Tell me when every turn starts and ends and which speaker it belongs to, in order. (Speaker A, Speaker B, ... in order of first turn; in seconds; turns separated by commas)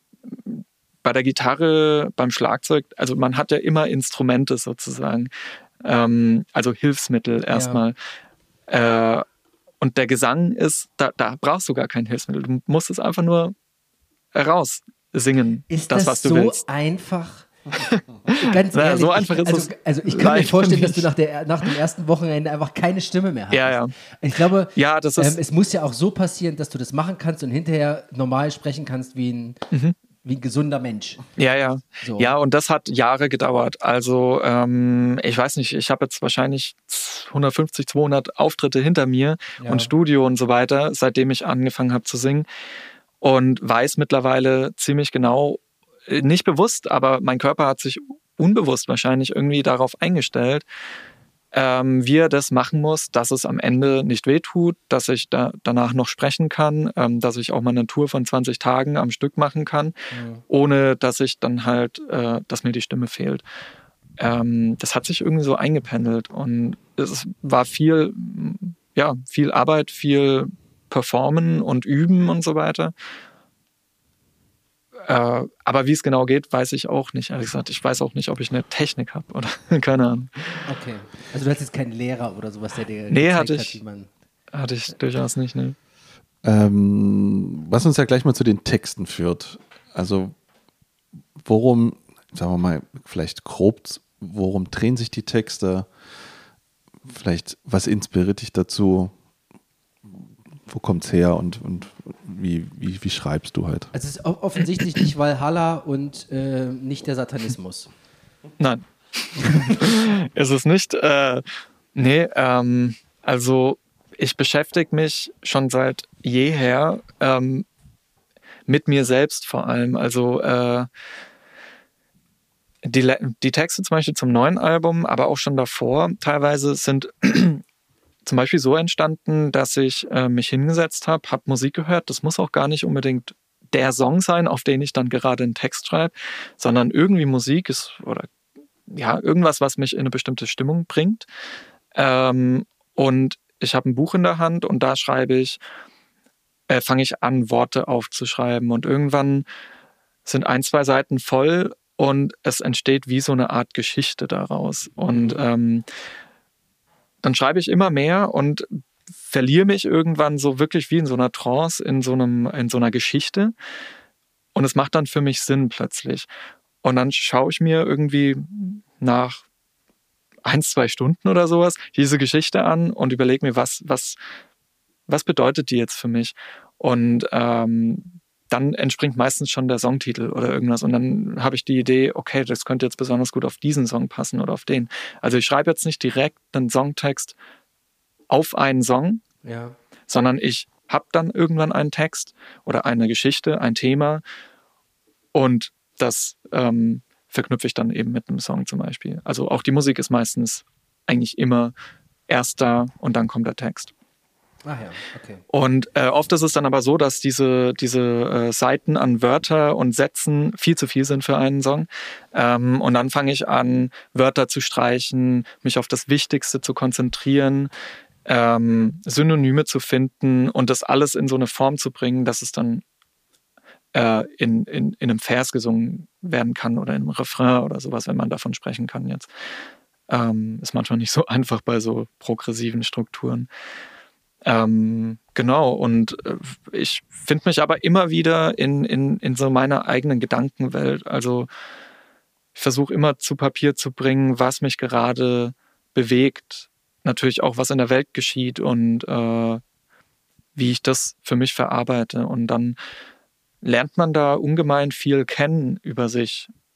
Speaker A: 0.3-5.3, Speaker A: 5.8-8.0, Speaker B: 7.5-7.8, Speaker A: 8.7-9.2, Speaker A: 9.8-13.5, Speaker A: 14.3-16.6, Speaker B: 15.7-17.5, Speaker A: 17.7-21.1, Speaker B: 18.4-29.6, Speaker A: 23.5-23.9, Speaker A: 24.8-25.4, Speaker B: 30.2-31.2, Speaker A: 31.4-42.5, Speaker B: 32.0-32.3, Speaker B: 39.6-39.9, Speaker A: 43.2-50.6, Speaker A: 51.5-59.9, Speaker B: 60.1-60.4, Speaker A: 60.5-63.4, Speaker A: 64.2-72.9, Speaker A: 75.1-80.7, Speaker B: 80.7-84.1, Speaker A: 83.1-83.8, Speaker A: 84.5-85.8, Speaker C: 86.4-90.3, Speaker C: 91.4-95.9, Speaker C: 97.0-99.1, Speaker C: 100.7-103.9, Speaker B: 103.9-107.9, Speaker A: 108.6-111.4, Speaker A: 111.9-117.7, Speaker A: 118.7-120.9, Speaker A: 122.8-127.6, Speaker A: 128.2-138.3, Speaker A: 138.9-141.2, Speaker A: 141.9-145.6, Speaker A: 146.7-149.4, Speaker A: 150.2-155.8, Speaker B: 155.1-155.4, Speaker A: 157.2-163.5, Speaker A: 164.5-166.3, Speaker A: 166.8-169.4, Speaker A: 170.4-174.2, Speaker A: 175.1-187.3, Speaker A: 188.3-189.2, Speaker B: 189.4-189.7, Speaker A: 190.1-194.2, Speaker A: 195.3-201.7, Speaker A: 202.3-203.9, Speaker B: 204.6-205.4, Speaker A: 205.5-217.7, Speaker A: 218.2-222.8, Speaker A: 223.9-229.3, Speaker A: 230.1-233.5, Speaker A: 234.4-241.5, Speaker A: 242.6-249.6, Speaker A: 250.5-252.8, Speaker A: 253.6-256.5